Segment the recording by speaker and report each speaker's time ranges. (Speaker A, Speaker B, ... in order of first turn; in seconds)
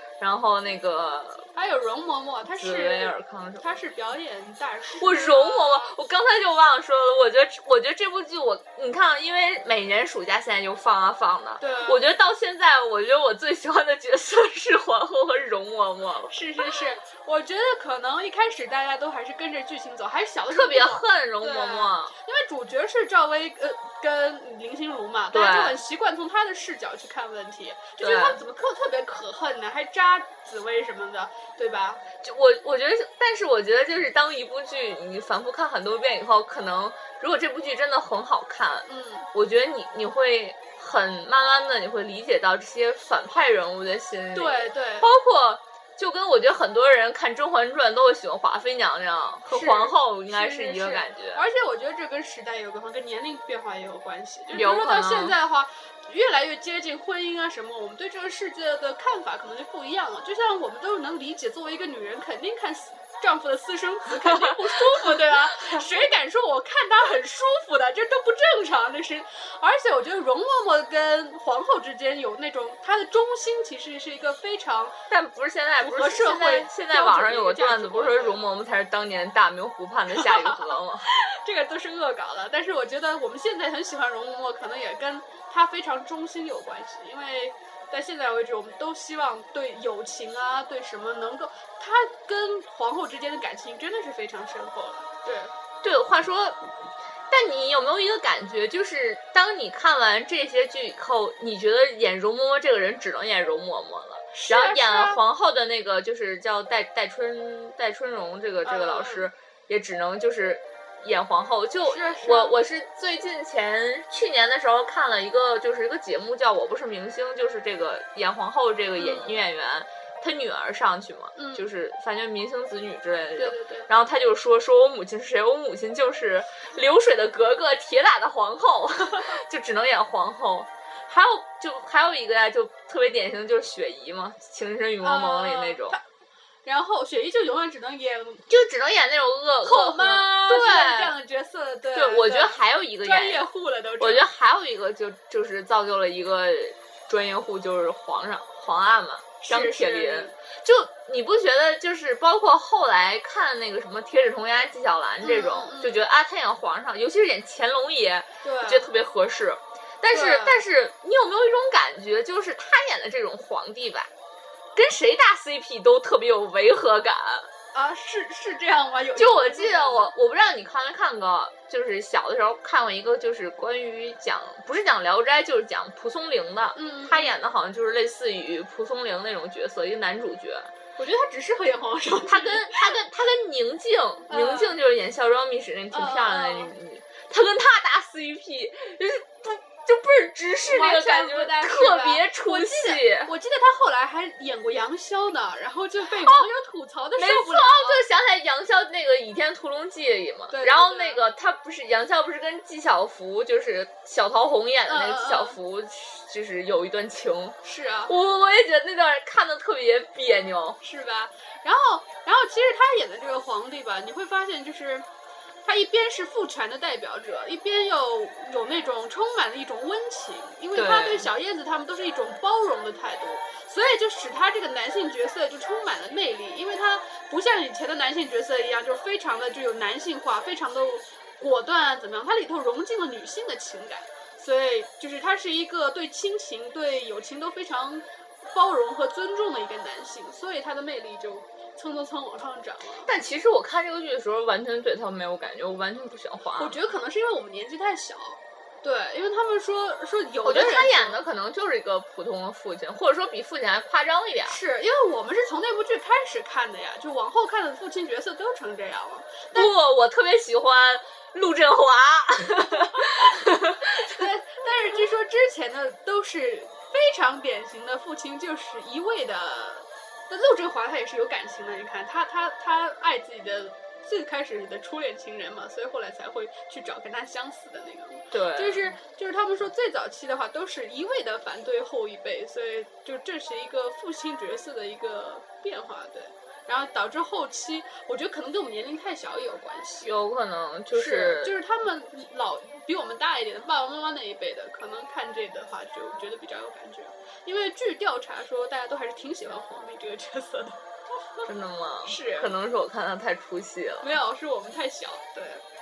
Speaker A: 0.2-1.5, 2.5-3.7, 5.0-16.4, 20.5-22.1, 25.3-25.8, 28.0-28.4, 32.2-51.4, 54.5-55.3, 64.2-66.0, 75.1-81.0, 95.8-96.6, 97.3-136.0, 138.5-141.1, 141.9-143.5, 144.0-164.1, 164.7-167.5, 169.2-180.7, 182.2-193.3, 196.1-196.4, 197.2-210.8, 220.7-221.3, 243.0-246.8, 250.4-254.6, 259.5-264.2, 278.3-278.8, 290.0-291.5, 301.4-304.1
Speaker B: 1.6-5.9, 11.6-12.0, 16.3-32.0, 38.9-39.3, 44.3-45.1, 49.4-75.0, 75.8-78.4, 80.1-95.5, 104.3-105.2, 108.6-109.3, 111.8-112.5, 119.0-119.4, 121.3-121.7, 123.3-123.9, 135.0-136.0, 136.6-138.5, 139.6-144.3, 149.4-150.3, 155.2-156.0, 158.4-158.9, 160.1-160.6, 167.7-170.1, 176.7-177.3, 181.0-182.9, 184.3-184.8, 185.9-186.7, 190.7-198.0, 200.5-201.2, 204.9-205.6, 207.6-208.1, 210.8-215.1, 215.6-243.1, 246.6-251.2, 254.4-259.7, 262.7-290.1, 290.9-301.5, 302.1-302.5, 304.0-305.6